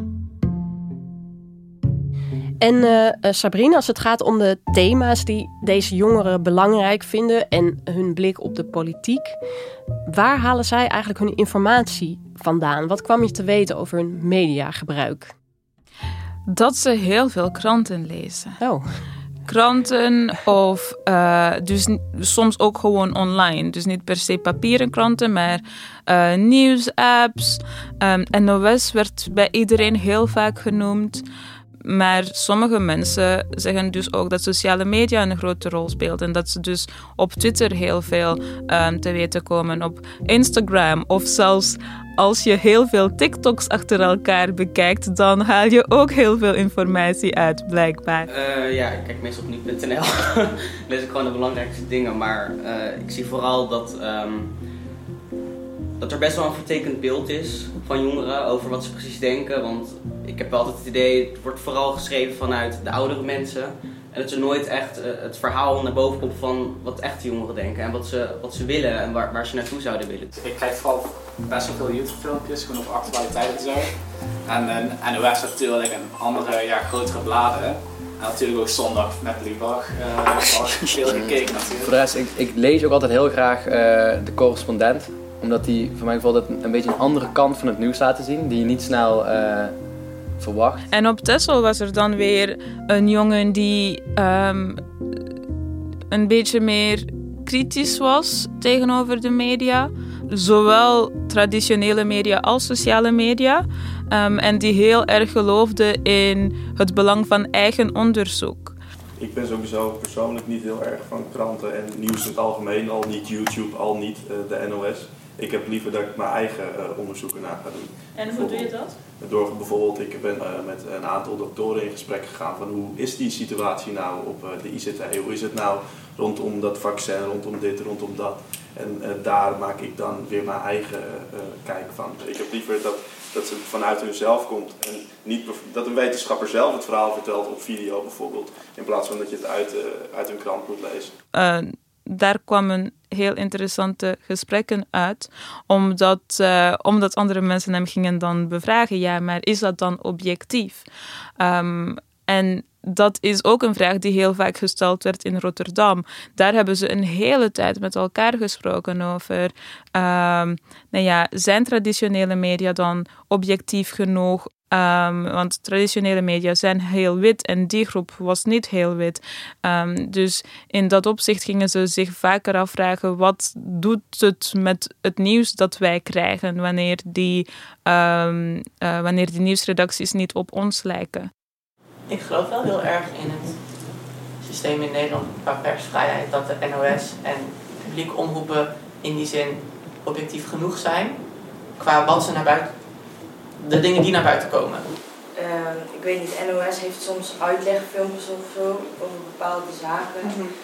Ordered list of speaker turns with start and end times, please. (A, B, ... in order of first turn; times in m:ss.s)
0:02.6-0:09.4 A
0:10.1-0:15.3 A
0:16.5-0:18.6 B
0:19.5-0:31.2 B
0:31.8-0:48.3 B
0:48.3-0:54.5 C
0:56.0-1:10.3 C
1:10.4-1:13.9 D
1:14.5-1:21.9 D
1:21.8-1:29.8 E
1:30.4-1:30.8 E
1:30.9-1:34.8 B
1:36.1-1:48.8 B
1:49.2-2:21.1 F
1:58.2-1:59.0 B
2:21.3-2:30.9 B
2:31.4-3:01.3 B
3:02.1-3:03.6 G
3:04.4-3:11.2 G
3:11.8-3:12.8 G
3:13.6-3:14.8 G
3:15.3-3:20.5 H